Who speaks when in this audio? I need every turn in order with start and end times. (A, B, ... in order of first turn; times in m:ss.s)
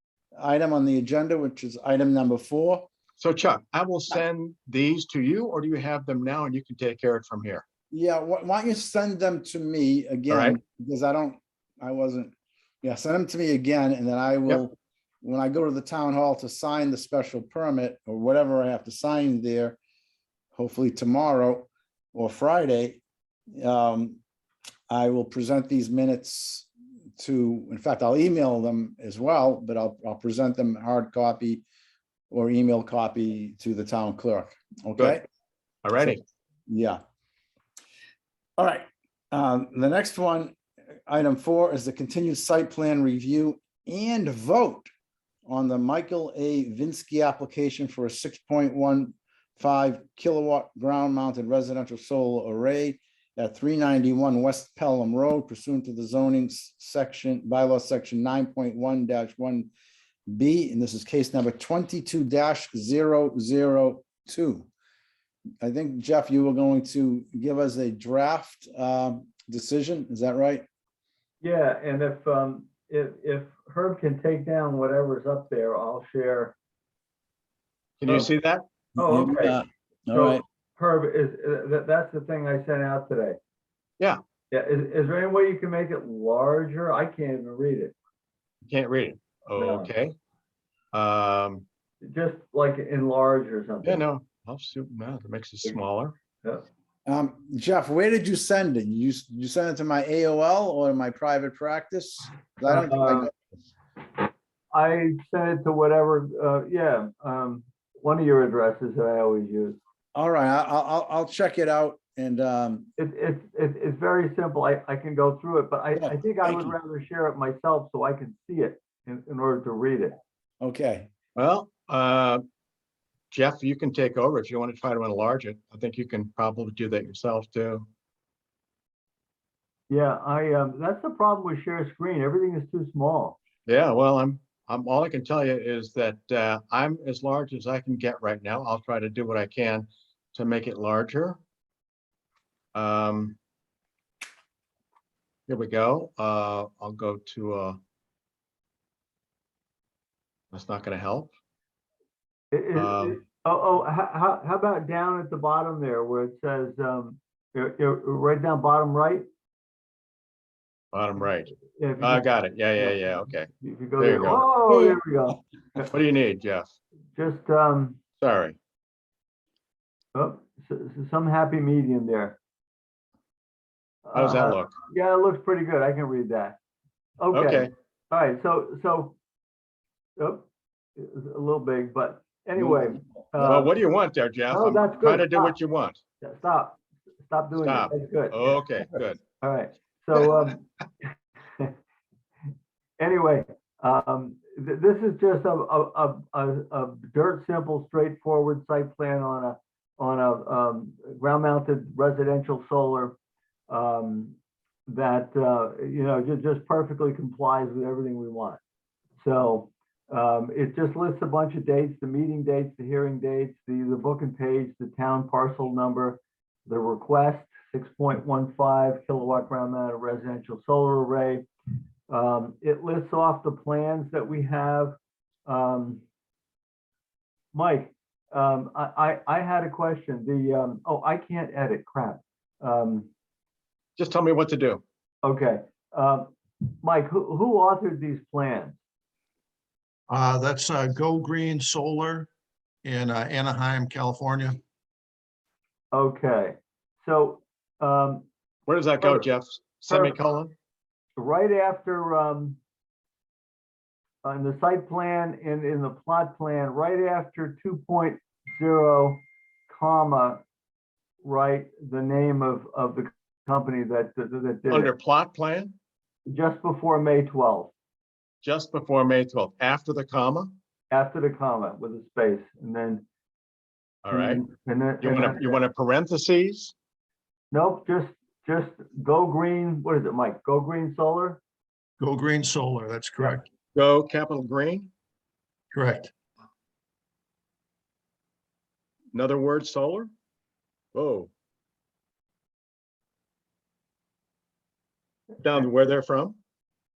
0:00.4-0:02.9 A
0:03.2-0:07.6 B
0:07.9-0:19.8 A
0:10.3-0:10.6 B
0:20.5-0:24.2 A
0:24.9-0:26.7 A
0:27.2-0:31.6 A
0:32.3-0:35.2 A
0:35.8-0:36.2 B
0:36.7-0:37.0 A
0:38.6-0:44.9 A
0:45.4-0:59.7 A
1:00.3-1:04.7 A
1:05.6-1:10.6 A
1:11.4-1:16.6 C
1:18.0-1:18.6 B
1:19.0-1:19.6 C
1:19.0-1:20.4 A
1:20.1-1:23.4 C
1:24.5-1:27.9 C
1:28.7-1:30.1 B
1:29.6-1:29.9 C
1:30.9-1:31.6 B
1:32.0-1:34.0 C
1:33.8-1:36.1 B
1:37.0-1:43.3 A
1:42.6-1:43.3 C
1:44.7-1:49.8 C
1:50.1-1:52.9 A
1:53.0-2:00.2 C
1:56.0-1:56.7 A
2:00.6-2:01.1 A
2:01.3-2:02.4 B
2:03.3-2:07.8 B
2:09.9-2:13.4 C
2:13.6-2:21.4 B
2:22.7-2:23.4 B
2:25.5-2:27.8 B
2:30.5-2:31.3 B
2:32.5-2:39.2 C
2:32.8-2:33.2 B
2:40.9-2:44.4 B
2:41.7-2:42.2 C
2:43.6-2:45.9 C
2:45.9-2:46.7 B
2:47.2-2:48.0 C
2:48.2-2:48.6 B
2:50.1-2:52.4 C
2:54.0-2:56.6 C
2:54.1-2:54.7 B
2:57.2-2:59.2 C
2:57.3-2:57.7 B
3:00.2-3:00.4 C
3:01.0-3:03.7 C
3:03.4-3:06.0 B
3:04.5-3:05.6 C
3:06.2-3:08.4 C
3:07.6-3:09.2 B
3:09.4-3:11.7 C
3:13.0-3:23.2 C
3:23.7-3:24.3 C
3:24.9-3:28.6 C
3:29.2-3:41.5 C
3:42.1-3:46.0 C
3:47.5-3:53.1 C
3:54.0-3:54.8 B
3:55.2-3:58.8 C
4:00.1-4:02.3 D
4:02.8-4:04.6 D
4:05.9-4:08.3 C
4:08.7-4:10.5 B
4:09.9-4:10.2 C
4:11.2-4:12.6 C
4:14.2-4:20.4 C
4:21.2-4:24.9 C
4:24.7-4:25.7 B
4:26.3-4:27.7 C
4:28.4-4:30.5 B
4:30.9-4:33.0 C
4:34.0-4:34.4 B
4:34.1-4:35.6 C
4:35.0-4:36.7 B
4:37.5-4:41.4 C
4:42.0-4:43.4 D
4:43.7-4:44.9 B
4:45.7-4:46.1 D
4:49.1-4:50.1 B
4:50.9-4:51.3 B
4:55.4-4:56.4 B